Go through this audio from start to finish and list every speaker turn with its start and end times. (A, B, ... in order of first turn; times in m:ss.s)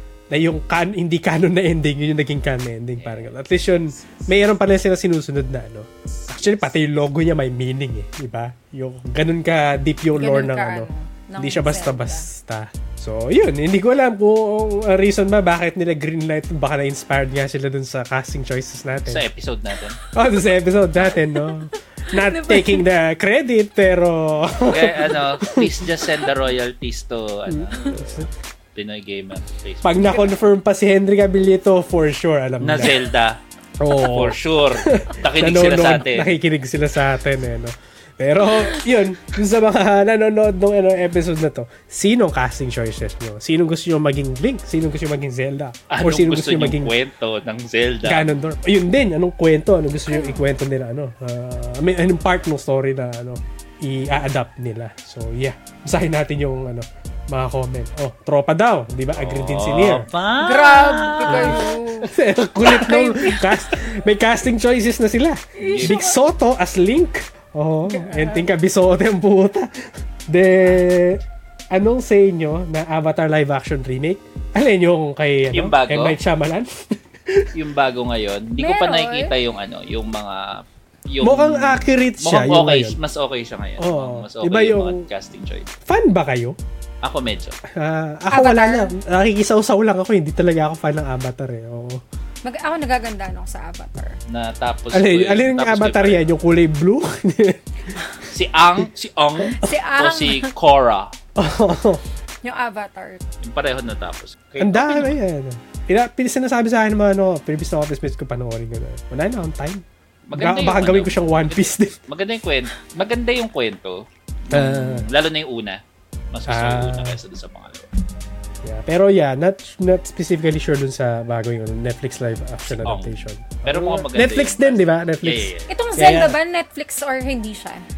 0:00.3-0:19.2 A
0:03.0-0:03.3 B
0:10.1-0:12.3 C
0:19.0-0:20.0 B
0:20.1-0:26.2 A
0:21.3-0:22.8 C
0:24.7-0:30.4 B
0:27.5-0:28.3 A
0:29.8-0:33.0 A
0:32.6-0:36.4 B
0:33.8-0:46.9 A
0:45.9-0:48.3 B
0:48.0-1:00.1 A
0:50.1-0:50.4 C
0:59.1-1:01.8 B
1:00.4-1:03.7 C
1:01.3-1:17.5 A
1:05.6-1:06.2 C
1:05.6-1:06.0 B
1:07.9-1:08.4 C
1:15.5-1:16.2 B
1:17.5-1:25.7 B
1:18.6-1:19.3 C
1:21.2-1:23.0 A
1:23.8-1:25.1 A
1:25.8-1:26.6 A
1:27.0-1:27.6 B
1:27.7-1:32.0 A
1:28.3-1:28.9 C
1:32.4-1:34.2 C
1:34.3-1:36.2 B
1:34.9-1:38.0 A
1:38.3-1:41.1 B
1:39.6-1:40.5 C
1:41.4-1:42.0 A
1:42.4-1:43.2 C
1:43.4-1:45.2 B
1:44.6-1:52.0 A
1:50.3-1:55.8 B
1:54.5-1:55.1 A
1:56.3-1:57.9 B
1:56.5-1:57.2 A
1:58.6-2:06.4 A
2:02.7-2:05.7 B
2:05.7-2:07.8 C